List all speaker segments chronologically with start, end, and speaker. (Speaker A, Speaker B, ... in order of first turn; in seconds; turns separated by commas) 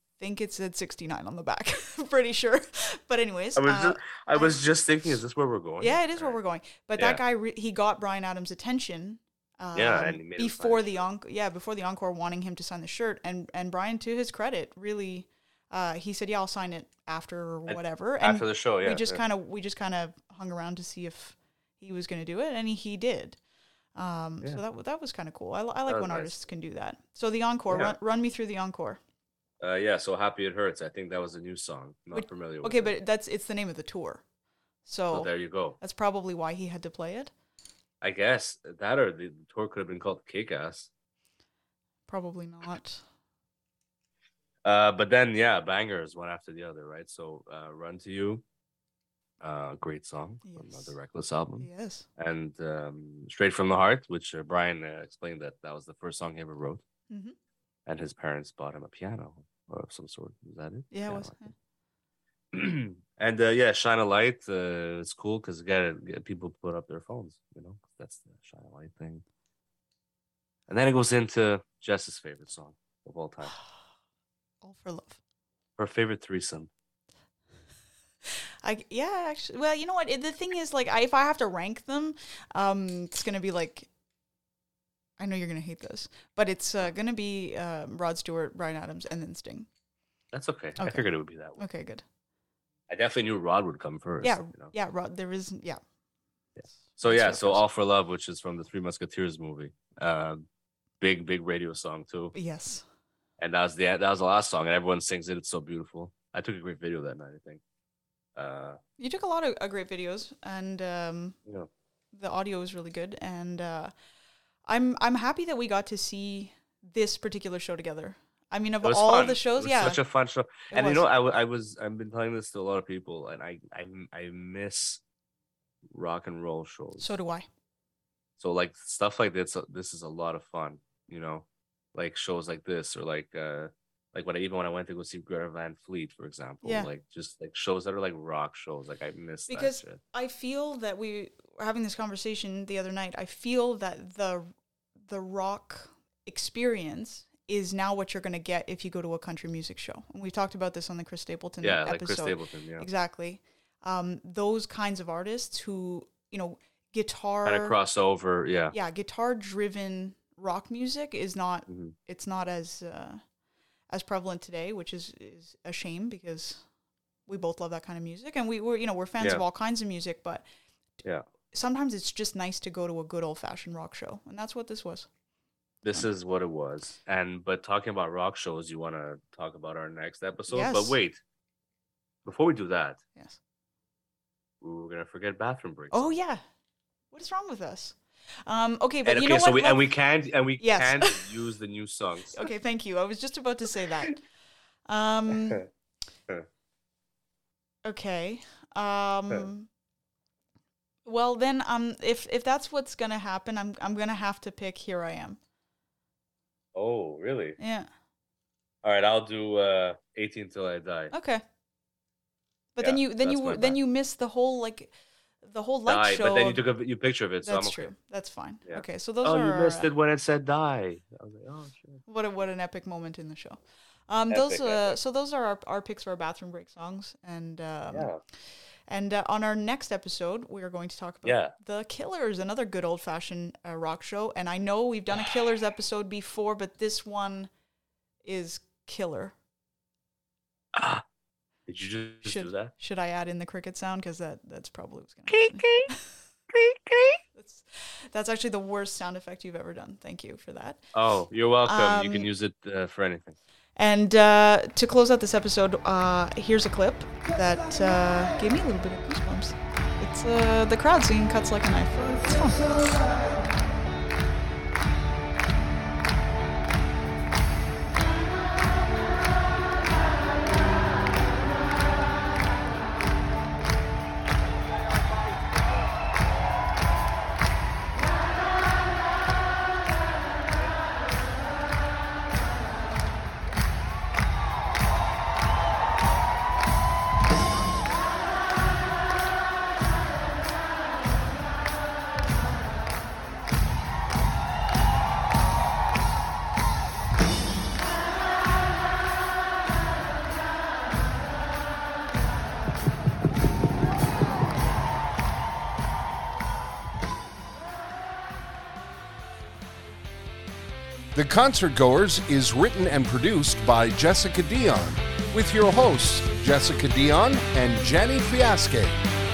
Speaker A: 0.2-4.6, Speaker B: 3.5-6.3, Speaker A: 5.8-23.4, Speaker B: 9.7-11.0, Speaker B: 17.7-19.2, Speaker A: 23.9-29.0, Speaker B: 25.9-26.4, Speaker B: 27.7-27.9, Speaker B: 29.6-32.9, Speaker A: 32.1-34.2, Speaker A: 34.8-37.3, Speaker B: 35.1-35.8, Speaker B: 38.0-40.9, Speaker A: 42.1-43.0, Speaker B: 44.6-48.4, Speaker B: 49.4-56.8, Speaker A: 50.4-50.9, Speaker A: 51.6-52.0, Speaker A: 57.1-57.3, Speaker B: 57.9-61.3, Speaker A: 60.9-61.5, Speaker B: 62.5-69.2, Speaker B: 70.7-73.5, Speaker A: 74.6-75.2, Speaker B: 75.8-76.7, Speaker A: 78.6-83.9, Speaker A: 85.2-89.7, Speaker B: 90.3-91.6, Speaker A: 90.8-92.0, Speaker B: 92.9-94.7, Speaker A: 94.2-95.8, Speaker A: 96.7-97.6, Speaker B: 97.0-100.5, Speaker B: 101.0-102.3, Speaker A: 102.3-102.8, Speaker B: 103.4-107.6, Speaker B: 108.3-108.8, Speaker A: 109.0-111.4, Speaker A: 112.1-113.9, Speaker A: 114.7-120.0, Speaker B: 118.8-125.0, Speaker A: 120.7-121.1, Speaker B: 125.9-127.1, Speaker A: 127.0-127.5, Speaker B: 128.4-140.0, Speaker A: 136.6-136.9, Speaker A: 139.5-144.5, Speaker A: 145.1-157.8, Speaker B: 151.6-152.9, Speaker B: 157.4-158.7, Speaker A: 158.7-163.2, Speaker B: 161.7-161.9, Speaker A: 163.9-166.6, Speaker A: 167.3-170.4, Speaker A: 171.5-175.1, Speaker B: 175.8-181.2, Speaker A: 180.5-181.0, Speaker B: 182.2-183.0, Speaker B: 184.6-186.1, Speaker A: 185.9-186.4, Speaker A: 187.1-189.8, Speaker B: 189.0-192.4, Speaker A: 190.6-191.2, Speaker A: 192.3-194.2, Speaker A: 194.9-195.7, Speaker B: 195.3-195.6, Speaker A: 197.8-199.7, Speaker A: 201.1-205.4, Speaker B: 206.7-207.6, Speaker A: 207.6-207.9, Speaker B: 208.8-211.1, Speaker A: 211.1-211.4, Speaker A: 212.7-214.9, Speaker B: 212.8-213.8, Speaker A: 215.4-216.6, Speaker B: 215.9-217.9, Speaker A: 217.4-219.9, Speaker B: 218.7-222.0, Speaker A: 222.1-228.1, Speaker B: 224.3-225.0, Speaker B: 227.9-228.2, Speaker A: 228.9-237.5, Speaker B: 231.2-231.5, Speaker A: 238.2-239.3, Speaker B: 240.7-241.0, Speaker B: 241.7-242.7, Speaker A: 242.2-246.0, Speaker B: 245.3-245.9, Speaker B: 246.5-247.2, Speaker A: 247.3-250.8, Speaker B: 250.9-253.4, Speaker A: 251.6-252.3, Speaker A: 253.8-263.1, Speaker C: 311.1-319.0